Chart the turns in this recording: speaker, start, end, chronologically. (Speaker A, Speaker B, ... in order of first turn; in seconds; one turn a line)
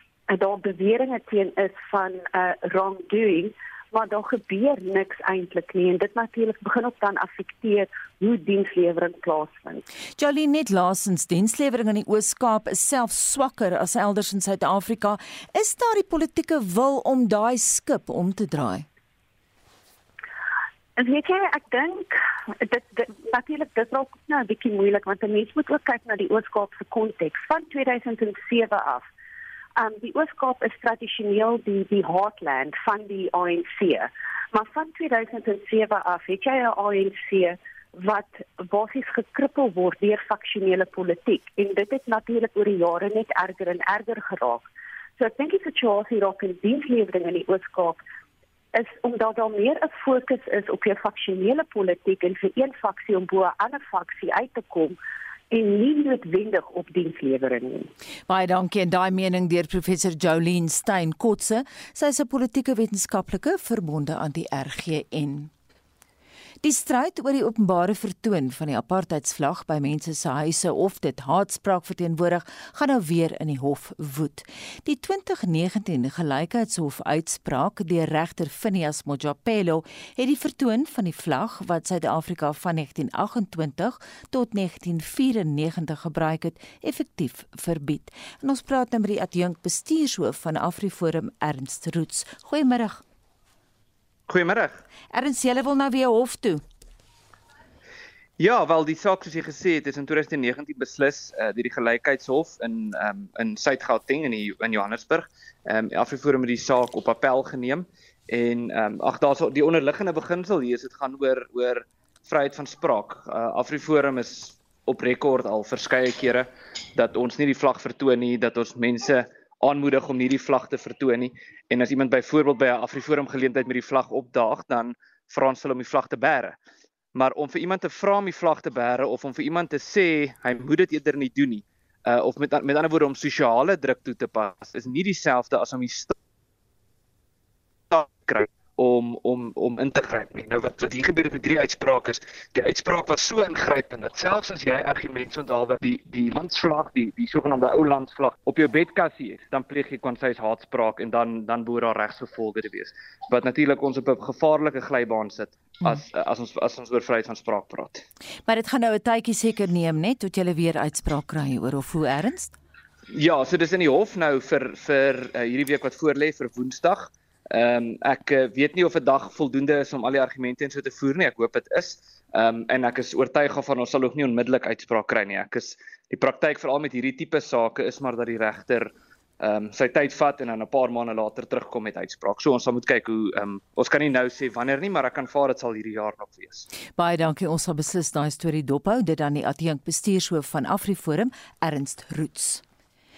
Speaker A: 0.3-9.8
Speaker B: 10.2-18.8
Speaker A: 21.0-29.1
Speaker A: 29.8-48.0
Speaker A: 48.7-55.0
Speaker A: 55.5-57.9
Speaker B: 58.3-65.5
Speaker B: 66.6-93.0
Speaker C: 94.3-94.8
Speaker B: 95.1-96.6
Speaker C: 98.4-126.6
Speaker C: 127.1-136.1
Speaker C: 137.9-158.0
Speaker B: 158.5-162.5
Speaker C: 163.1-186.7
Speaker B: 186.9-192.6